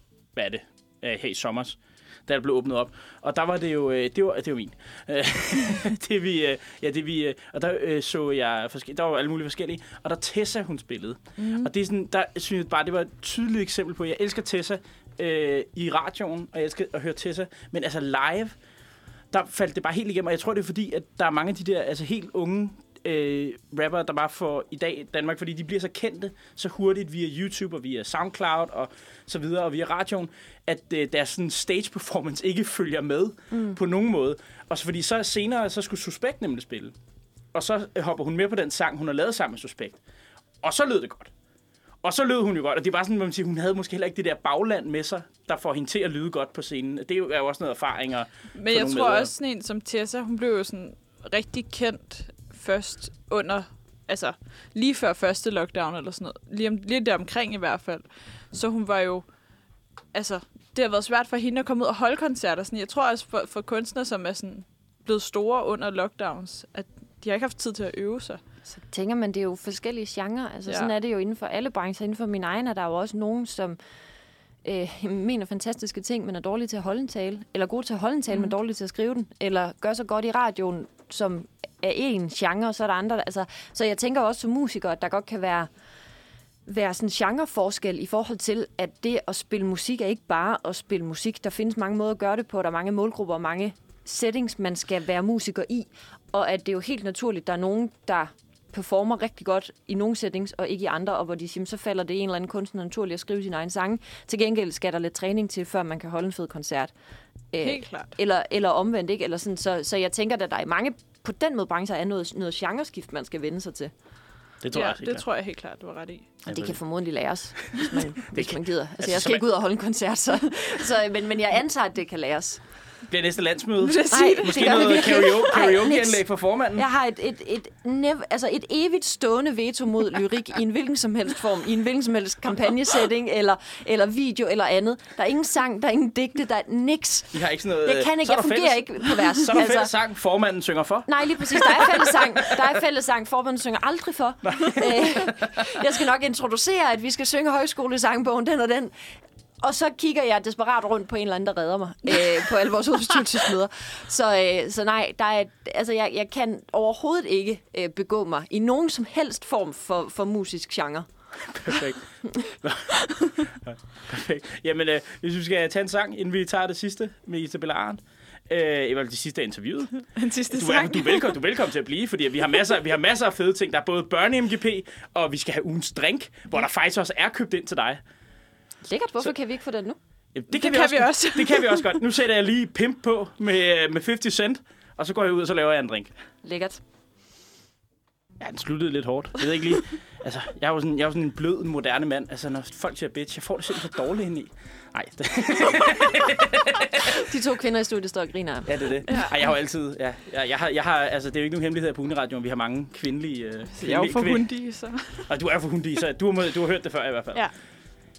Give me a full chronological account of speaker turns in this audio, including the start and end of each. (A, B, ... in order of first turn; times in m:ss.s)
0:00.4-0:18.6 A
0:11.4-0:11.7 B
0:19.3-0:36.9 A
0:33.5-0:33.8 C
0:37.5-0:40.0 A
0:40.6-0:41.3 A
0:42.0-0:49.3 A
0:48.6-0:59.2 B
1:00.1-1:08.4 B
1:08.7-1:13.8 C
1:14.6-1:25.7 C
1:26.6-1:46.9 C
1:47.5-1:53.9 C
1:47.6-1:48.1 B
1:54.6-1:55.2 A
1:54.7-1:56.3 B
1:56.4-2:02.6 C
1:56.5-1:56.8 A
1:58.3-1:59.4 A
2:03.1-2:06.8 A
2:03.8-2:05.4 B
2:04.1-2:06.2 C
2:06.7-2:19.9 C
2:17.3-2:22.4 A
2:21.1-2:28.9 C
2:24.5-2:25.4 A
2:29.6-2:41.1 C
2:41.4-2:58.0 A
2:50.1-2:51.4 B
2:58.8-3:00.0 C
3:00.3-3:06.1 A
3:00.5-3:02.0 B
3:06.4-3:06.8 C
3:08.4-3:17.2 A
3:17.0-3:18.8 C
3:18.6-3:24.4 A
3:23.7-3:25.3 B
3:25.3-3:27.4 A